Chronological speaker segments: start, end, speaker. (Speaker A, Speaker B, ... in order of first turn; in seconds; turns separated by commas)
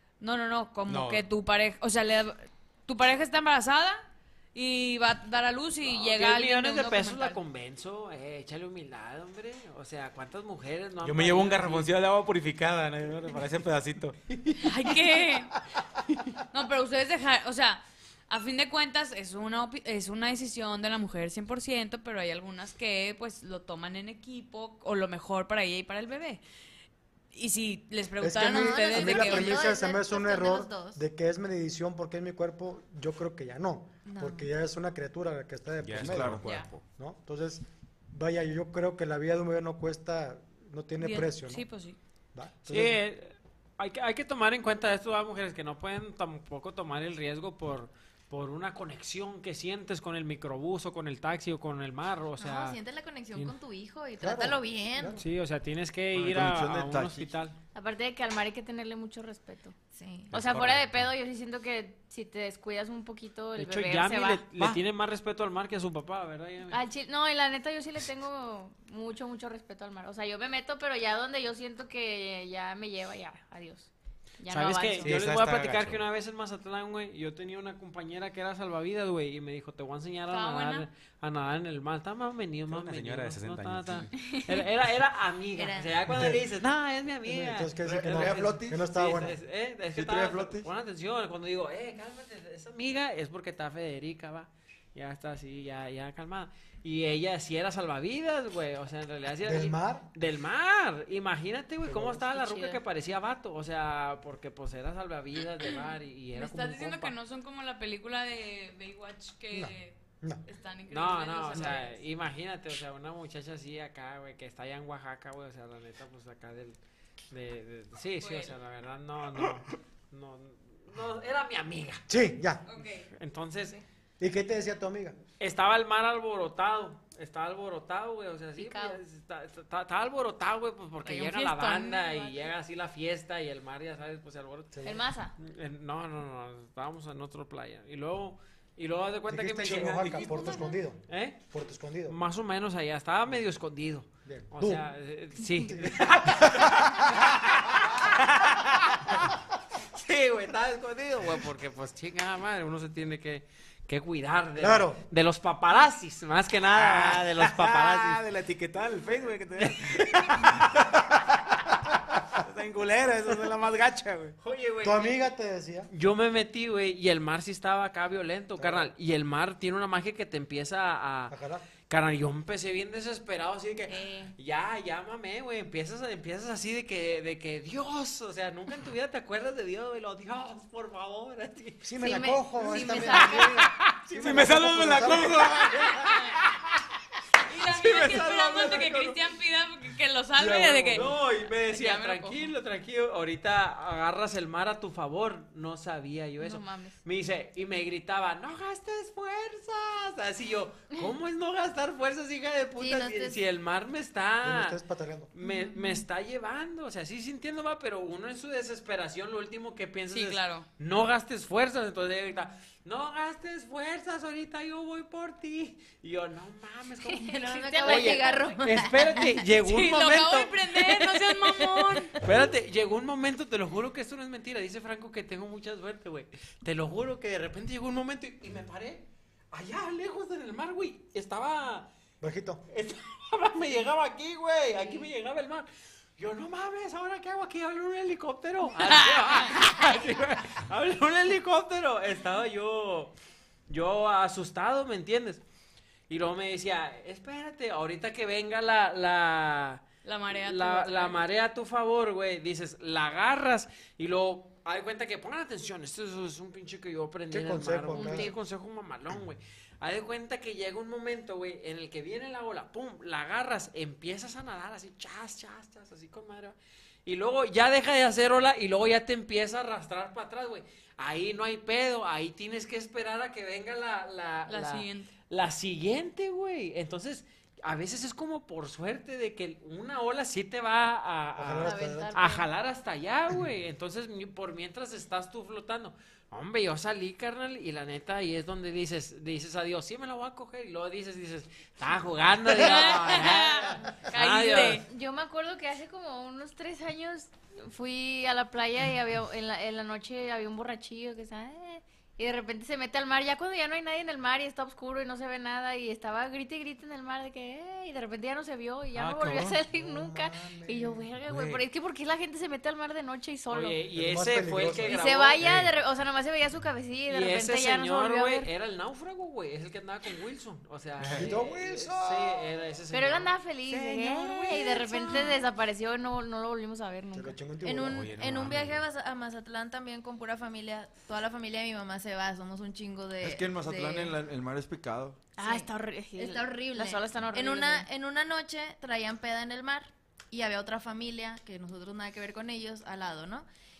Speaker A: 0.2-7.4, Speaker B: 0.9-1.3, Speaker C: 5.8-11.9, Speaker B: 11.0-14.2, Speaker A: 14.6-15.5, Speaker A: 16.5-26.4, Speaker A: 27.3-29.7, Speaker D: 28.2-41.6, Speaker E: 28.4-31.0, Speaker E: 34.1-34.5, Speaker B: 35.8-36.8, Speaker F: 36.0-36.5, Speaker A: 41.0-42.0, Speaker D: 42.4-43.0, Speaker C: 42.7-52.8, Speaker E: 52.4-55.2, Speaker D: 54.2-55.2, Speaker C: 55.2-57.5, Speaker F: 56.1-57.3, Speaker G: 57.8-59.8, Speaker E: 59.9-60.3, Speaker B: 60.3-61.1, Speaker G: 60.3-64.5, Speaker C: 63.6-66.8, Speaker G: 66.7-75.2, Speaker C: 74.5-107.1, Speaker B: 75.0-76.0, Speaker A: 80.3-80.9, Speaker B: 82.7-84.1, Speaker E: 85.5-86.2, Speaker D: 86.1-86.5, Speaker D: 87.2-89.4, Speaker F: 87.8-88.9, Speaker F: 89.9-90.7, Speaker D: 99.4-100.1, Speaker D: 101.8-102.3, Speaker G: 102.3-102.8, Speaker A: 106.3-112.0, Speaker D: 109.5-110.4, Speaker C: 110.9-116.8, Speaker C: 117.3-122.1, Speaker A: 118.2-118.5, Speaker D: 122.1-122.6, Speaker A: 122.7-123.1, Speaker C: 123.1-123.8, Speaker D: 124.2-125.2, Speaker C: 125.4-134.9, Speaker G: 128.6-129.0, Speaker A: 131.0-132.5, Speaker D: 134.7-135.0, Speaker G: 134.8-135.3, Speaker C: 135.4-141.4, Speaker D: 139.3-142.2, Speaker C: 142.1-149.2, Speaker D: 144.3-144.9, Speaker D: 145.6-146.7, Speaker C: 149.9-158.2, Speaker D: 154.6-155.0, Speaker B: 156.7-164.4, Speaker C: 159.6-160.5, Speaker C: 164.4-165.3, Speaker D: 164.8-165.9, Speaker C: 165.9-171.4, Speaker D: 168.6-168.9, Speaker D: 171.3-171.7, Speaker C: 171.9-182.0, Speaker G: 173.9-174.3, Speaker D: 181.8-185.5, Speaker G: 182.0-183.6, Speaker C: 182.6-186.4, Speaker B: 184.1-186.3, Speaker A: 187.4-192.5, Speaker C: 187.6-189.2, Speaker D: 190.4-191.2, Speaker C: 190.9-204.8, Speaker G: 196.4-197.0, Speaker E: 202.8-203.4, Speaker D: 204.4-205.3, Speaker C: 205.3-221.2, Speaker G: 205.4-206.0, Speaker A: 210.1-210.7, Speaker G: 217.1-219.1, Speaker E: 217.3-219.4, Speaker A: 219.6-222.1, Speaker C: 222.2-231.9, Speaker D: 232.2-232.6, Speaker C: 232.7-235.7, Speaker C: 236.2-243.1, Speaker C: 243.7-245.4, Speaker C: 246.1-294.9, Speaker A: 250.1-251.2, Speaker D: 257.3-258.3, Speaker G: 257.9-258.4, Speaker A: 274.5-275.1, Speaker D: 281.4-282.2, Speaker G: 281.6-282.5, Speaker A: 292.5-294.9, Speaker G: 294.9-313.8, Speaker C: 309.0-309.5, Speaker D: 309.6-311.1, Speaker B: 311.2-311.6, Speaker C: 313.5-315.5, Speaker D: 313.9-315.7, Speaker G: 314.9-318.5, Speaker B: 315.4-315.7, Speaker C: 317.1-325.3, Speaker B: 321.0-321.4, Speaker D: 321.1-322.6, Speaker G: 322.9-327.4, Speaker E: 324.5-325.3, Speaker D: 327.1-328.1, Speaker E: 327.6-334.2, Speaker B: 327.8-328.8, Speaker F: 333.2-335.2, Speaker G: 335.4-337.9, Speaker E: 335.4-343.5